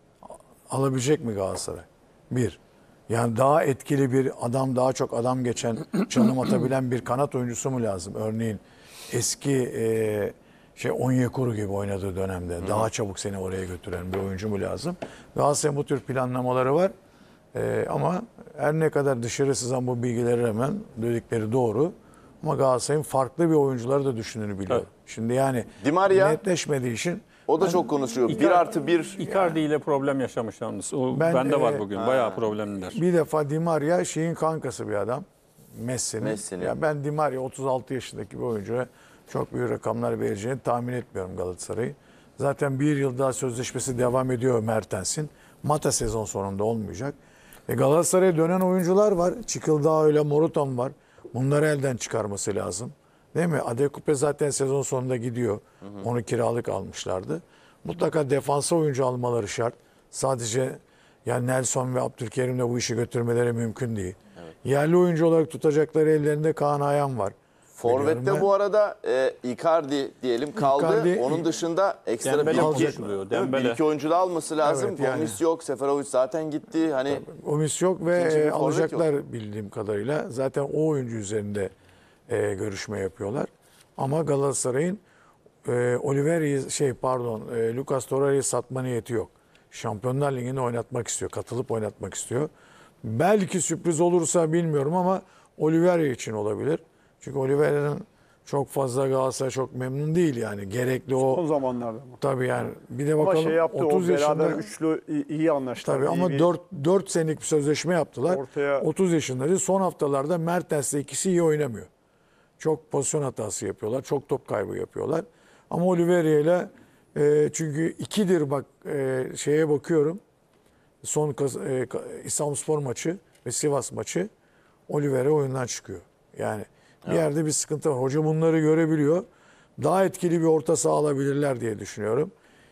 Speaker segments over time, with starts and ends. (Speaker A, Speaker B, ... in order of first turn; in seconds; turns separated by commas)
Speaker A: 0.2-16.9, Speaker B: 12.6-12.9, Speaker A: 17.5-28.7, Speaker B: 25.8-26.4, Speaker B: 27.5-29.6, Speaker C: 28.3-33.0, Speaker A: 31.1-31.9, Speaker B: 31.9-32.5, Speaker A: 32.8-35.2, Speaker A: 35.8-47.2, Speaker B: 36.2-36.7, Speaker A: 47.7-68.5, Speaker B: 67.8-77.2, Speaker A: 70.6-71.5, Speaker C: 72.2-73.8, Speaker A: 72.5-73.1, Speaker A: 74.6-75.4, Speaker A: 77.0-81.7, Speaker B: 78.1-79.1, Speaker A: 82.3-85.0, Speaker A: 85.7-92.5, Speaker A: 93.0-101.4, Speaker D: 101.2-102.2, Speaker A: 102.2-104.7, Speaker D: 103.2-106.5, Speaker A: 105.8-111.9, Speaker D: 108.3-108.8, Speaker A: 112.6-120.2, Speaker A: 121.0-124.3, Speaker A: 124.9-129.3, Speaker A: 129.8-132.3